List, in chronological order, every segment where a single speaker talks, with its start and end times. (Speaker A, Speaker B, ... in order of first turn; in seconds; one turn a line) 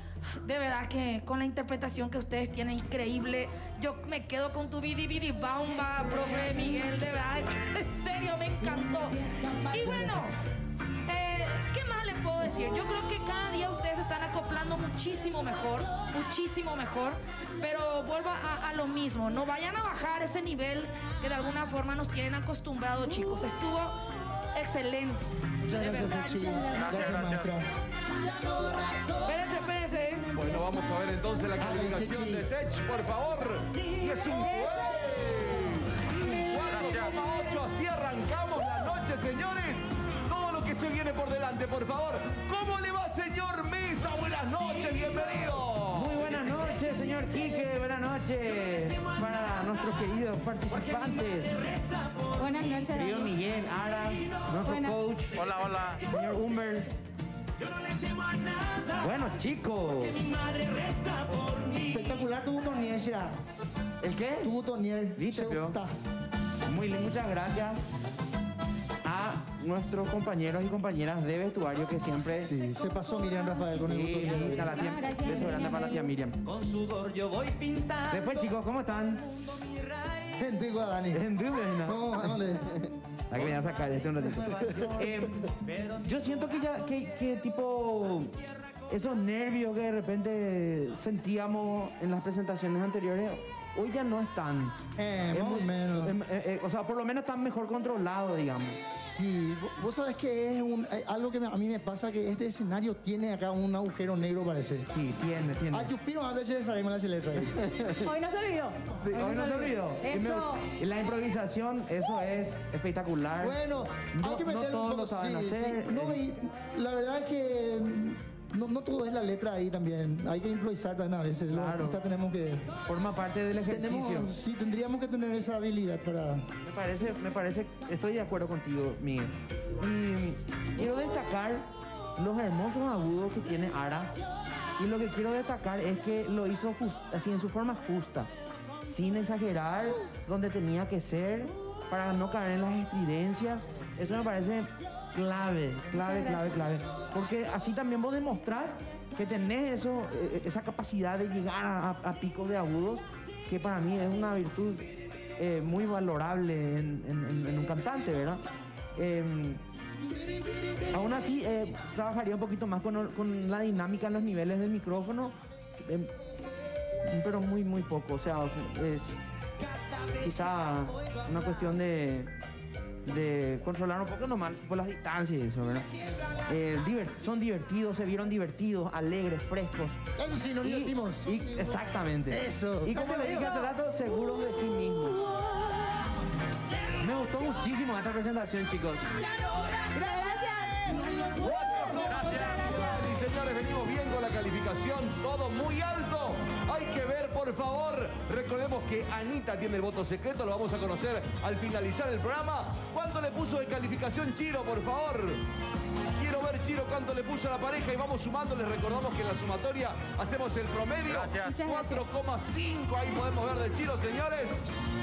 Speaker A: 0.3-10.3
Speaker B: 9.8-10.3
Speaker A: 11.0-24.0
Speaker A: 24.5-25.3
Speaker B: 25.6-27.7
Speaker C: 26.7-27.6
Speaker B: 28.3-29.2
Speaker A: 29.2-30.3
Speaker D: 30.3-46.2
Speaker B: 31.6-32.5
Speaker C: 36.7-37.1
Speaker E: 45.9-51.6
Speaker C: 51.8-52.3
Speaker F: 52.3-53.3
Speaker E: 52.9-56.9
Speaker F: 54.6-55.0
Speaker C: 55.4-56.0
Speaker C: 57.9-58.9
Speaker E: 59.0-60.3
Speaker C: 60.5-61.8
Speaker B: 61.8-63.4
Speaker E: 64.0-64.5
Speaker B: 64.4-65.9
Speaker E: 65.2-65.8
Speaker E: 66.7-67.8
Speaker E: 69.0-72.5
Speaker B: 72.4-74.7
Speaker E: 73.8-76.4
Speaker F: 74.5-76.1
Speaker C: 76.5-78.1
Speaker E: 78.1-79.3
Speaker B: 80.3-81.2
Speaker E: 81.1-85.5
Speaker B: 81.8-82.7
Speaker B: 84.2-85.5
Speaker E: 86.0-94.8
Speaker B: 95.0-96.2
Speaker E: 95.3-98.8
Speaker B: 98.9-104.9
Speaker E: 104.9-105.9
Speaker B: 105.7-107.5
Speaker E: 107.5-108.1
Speaker F: 108.0-110.6
Speaker A: 108.2-108.7
Speaker E: 108.9-116.2
Speaker B: 113.4-122.8
Speaker E: 121.5-122.0
Speaker E: 122.8-124.3
Speaker B: 123.7-126.5
Speaker E: 126.6-134.1
Speaker E: 134.8-138.3
Speaker E: 138.8-159.6
Speaker B: 160.3-160.9
Speaker E: 160.9-166.1
Speaker E: 167.0-169.2
Speaker B: 169.6-170.3
Speaker E: 170.2-172.3
Speaker E: 173.0-180.0
Speaker B: 180.2-183.7
Speaker E: 180.6-185.4
Speaker E: 187.0-189.2
Speaker B: 189.4-189.9
Speaker F: 189.9-191.0
Speaker B: 190.9-192.5
Speaker D: 191.2-205.4
Speaker D: 206.2-214.6
Speaker C: 211.1-211.5
Speaker F: 211.4-212.0